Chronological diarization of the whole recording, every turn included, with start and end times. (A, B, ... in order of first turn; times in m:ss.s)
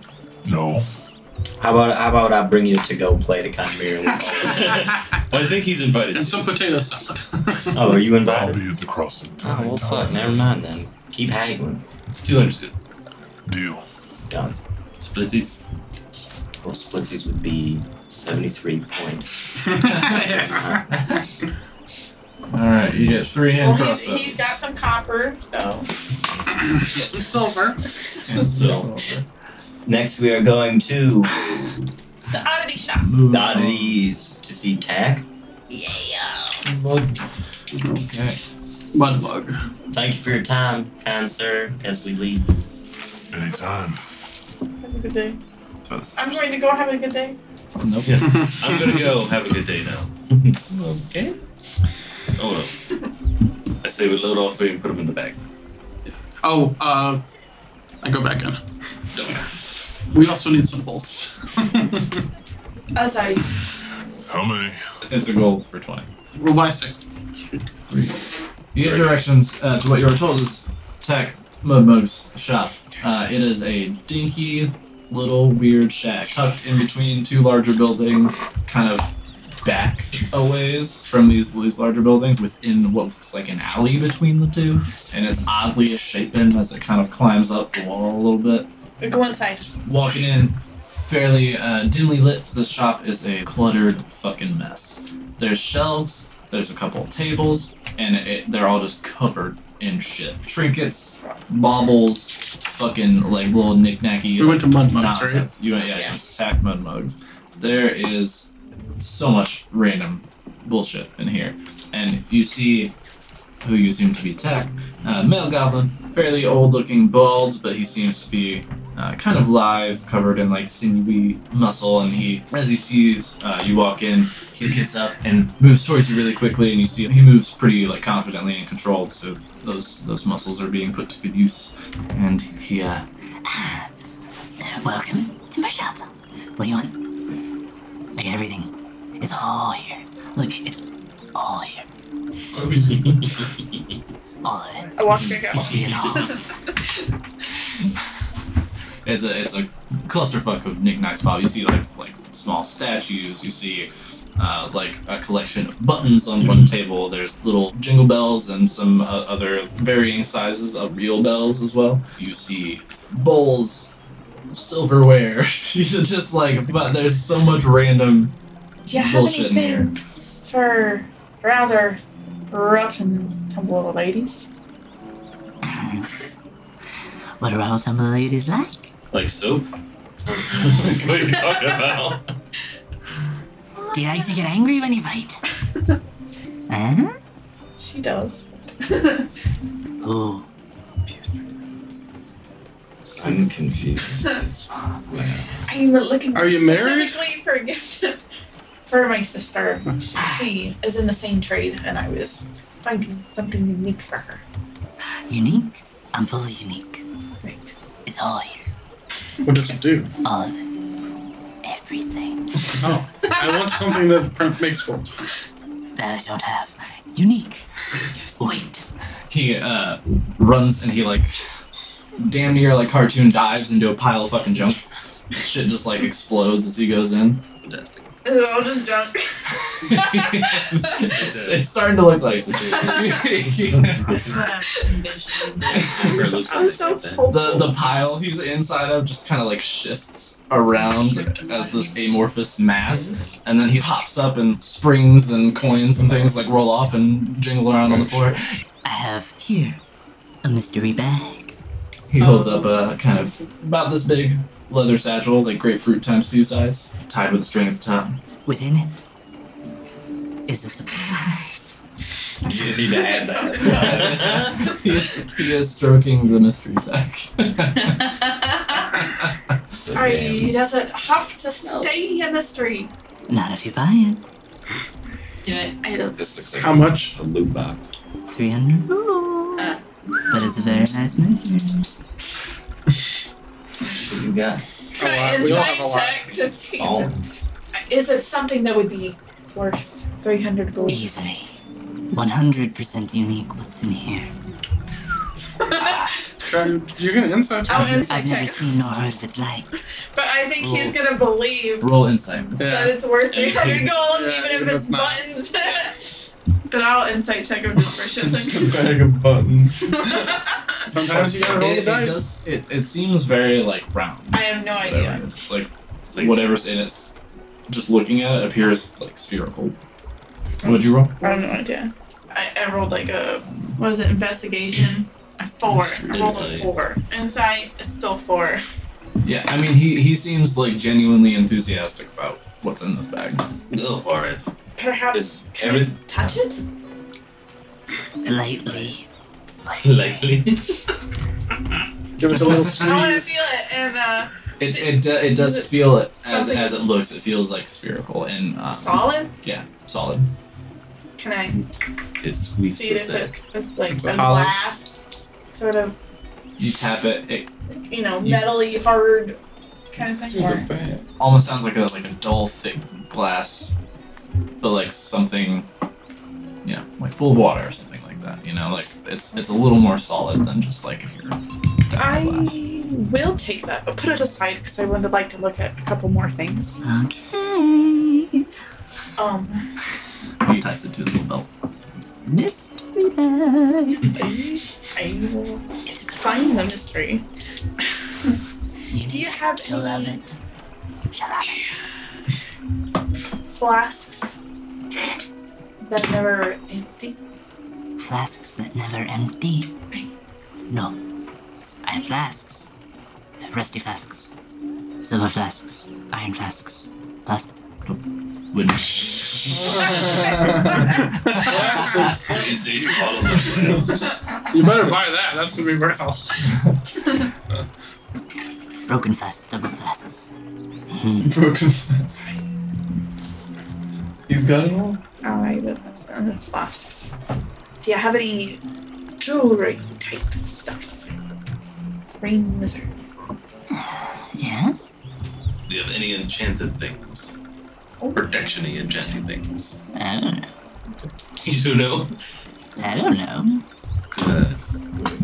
0:00.4-0:00.9 A
0:01.6-0:04.8 B
0:04.4-0:06.4 C
0:06.1-0:07.9 D
0:07.7-0:08.6 B
0:08.2-0:10.3 A
0:09.4-0:11.8 B
0:12.2-0:12.8 C
0:13.5-0:13.8 A
0:14.3-0:14.6 B
0:15.0-0:15.6 C
0:16.6-0:19.4 B
0:19.6-0:20.7 D
0:19.8-0:20.2 E
0:20.0-0:20.9 B
0:20.9-0:21.2 E
0:22.5-0:24.6 E
0:23.5-0:25.9 F
0:26.9-0:27.3 E
0:26.9-0:27.8 D
0:28.2-0:29.2 E
0:28.4-0:28.9 B
0:29.8-0:31.8 B
0:32.3-0:33.1 F
0:33.0-0:34.0 E
0:33.3-0:35.2 B
0:35.7-0:36.9 F
0:36.6-0:37.2 G
0:37.7-0:38.1 D
0:37.9-0:38.4 E
0:38.9-0:39.6 D
0:39.9-0:42.5 B
0:43.3-0:44.0 A
0:44.8-0:45.4 F
0:45.8-0:46.5 E
0:46.2-0:47.4 F
0:47.8-0:48.3 E
0:48.0-0:51.4 C
0:52.3-0:52.7 C
0:53.8-0:55.4 C
0:56.4-0:57.2 D
0:58.0-0:58.6 D
1:00.1-1:02.2 D
1:02.9-1:03.5 F
1:04.2-1:04.8 A
1:05.1-1:06.1 E
1:06.3-1:07.7 D
1:07.9-1:08.2 E
1:08.7-1:19.1 E
1:08.8-1:09.1 C
1:19.6-1:28.7 E
1:29.0-1:29.7 F
1:29.8-1:52.9 E
1:44.4-1:45.5 D
1:45.8-1:46.2 F
1:53.6-2:13.0 E
2:13.4-2:13.9 H
2:14.6-2:17.1 H
2:18.1-2:20.8 H
2:21.3-2:21.8 H
2:22.7-2:23.5 C
2:24.4-2:26.4 H
2:25.0-2:26.7 F
2:29.0-2:43.9 E
2:44.5-2:48.3 E
2:48.9-2:52.0 F
2:48.9-2:49.9 E
2:52.5-2:54.5 F
2:55.6-2:56.1 H
2:57.4-2:58.9 H
2:59.1-2:59.6 C
3:00.3-3:02.2 C
3:00.3-3:01.2 B
3:03.9-3:05.4 H
3:06.7-3:07.2 H
3:07.8-3:09.3 F
3:10.0-3:10.4 H
3:11.1-3:11.4 C
3:13.1-3:15.6 B
3:15.6-3:18.2 F
3:16.3-3:17.2 D
3:18.9-3:24.4 F
3:25.3-3:27.0 H
3:27.4-3:27.7 F
3:28.0-3:28.7 H
3:29.4-3:30.1 D
3:30.2-3:30.6 H
3:31.6-3:32.5 H
3:32.8-3:35.1 D
3:33.3-3:33.7 F
3:35.9-3:37.7 H
3:38.1-3:38.5 F
3:38.4-3:38.8 H
3:39.3-3:41.4 E
3:42.2-3:44.8 E
3:45.3-3:47.4 E
3:47.6-3:48.1 C
3:48.2-3:50.8 F
3:49.8-3:54.3 E
3:51.0-3:51.8 C
3:52.4-3:54.4 C
3:52.7-3:53.2 F
3:54.1-3:56.2 I
3:54.7-3:55.0 F
3:55.6-3:57.6 C
3:56.0-3:58.3 F
3:57.3-4:08.5 E
4:08.8-4:09.8 H
4:10.4-4:11.5 H
4:12.1-4:18.2 E
4:12.2-4:12.5 I
4:18.4-4:19.0 H
4:20.5-4:21.8 H
4:22.4-4:24.5 B
4:23.0-4:23.8 F
4:23.6-4:28.1 E
4:29.7-4:30.6 B
4:29.9-4:32.9 F
4:31.6-4:31.9 I
4:33.3-4:34.2 H
4:35.4-4:35.8 I
4:35.8-4:36.4 F
4:36.2-4:37.9 B
4:36.6-4:37.2 D
4:38.3-4:39.8 H
4:40.3-4:41.8 H
4:43.8-4:44.6 B
4:44.9-4:46.3 D
4:45.0-4:47.1 F
4:46.8-4:47.2 B
4:47.9-4:51.1 F
4:50.8-4:51.5 H
4:52.1-4:54.3 H
4:55.6-4:56.1 F
4:55.8-4:56.1 H
4:56.4-4:58.0 D
4:57.6-4:58.8 F
4:58.0-4:59.7 H
5:00.1-5:01.9 F
5:01.8-5:02.6 E
5:02.6-5:05.2 D
5:02.6-5:09.0 F
5:08.1-5:10.1 G
5:09.8-5:10.8 F
5:10.9-5:12.3 D
5:11.0-5:11.3 G
5:11.2-5:17.1 E
5:14.3-5:15.2 F
5:17.7-5:19.8 E
5:20.6-5:21.2 E
5:20.6-5:28.6 F
5:26.1-5:26.7 C
5:29.2-5:33.5 E
5:33.7-5:34.5 C
5:34.8-5:36.6 F
5:35.1-5:36.2 B
5:38.2-5:39.0 H
5:39.6-5:40.3 H
5:39.8-5:41.0 C
5:42.2-5:43.5 D
5:42.5-5:46.9 F
5:44.6-5:50.3 E
5:48.7-5:49.3 F
5:51.2-5:51.6 F
5:52.2-5:53.4 C
5:52.6-5:56.0 F
5:54.0-5:54.5 E
5:56.6-5:57.5 E
5:57.9-5:59.4 F
5:58.2-5:58.5 E
5:59.9-6:00.7 F
6:00.2-6:01.0 G
6:01.2-6:03.7 E
6:04.6-6:05.7 E
6:06.6-6:12.6 E
6:12.0-6:16.8 F
6:16.8-6:18.5 H
6:19.2-6:19.7 F
6:20.4-6:21.5 E
6:22.2-6:24.1 H
6:24.1-6:27.2 F
6:25.8-6:26.7 H
6:28.9-6:30.4 H
6:29.0-6:30.2 F
6:31.1-6:31.6 H
6:33.5-6:34.4 F
6:35.8-6:37.2 F
6:38.0-6:39.7 H
6:40.7-6:41.0 H
6:41.8-6:42.7 H
6:43.4-6:44.3 H
6:45.0-6:47.5 H
6:47.8-6:50.0 E
6:50.2-6:50.6 G
6:50.7-6:52.1 D
6:51.3-6:52.1 E
6:51.4-6:52.2 G
6:51.8-6:54.2 C
6:54.5-6:56.6 D
6:58.9-7:00.3 H
7:00.9-7:01.3 H
7:01.2-7:02.3 G
7:04.3-7:05.0 G
7:05.2-7:07.1 F
7:07.8-7:08.6 F
7:09.2-7:11.1 F
7:12.2-7:13.0 F
7:13.7-7:14.9 H
7:15.7-7:17.3 C
7:18.0-7:19.2 F
7:18.1-7:19.7 C
7:19.9-7:20.5 H
7:21.4-7:22.1 C
7:22.8-7:23.6 H
7:24.1-7:24.6 C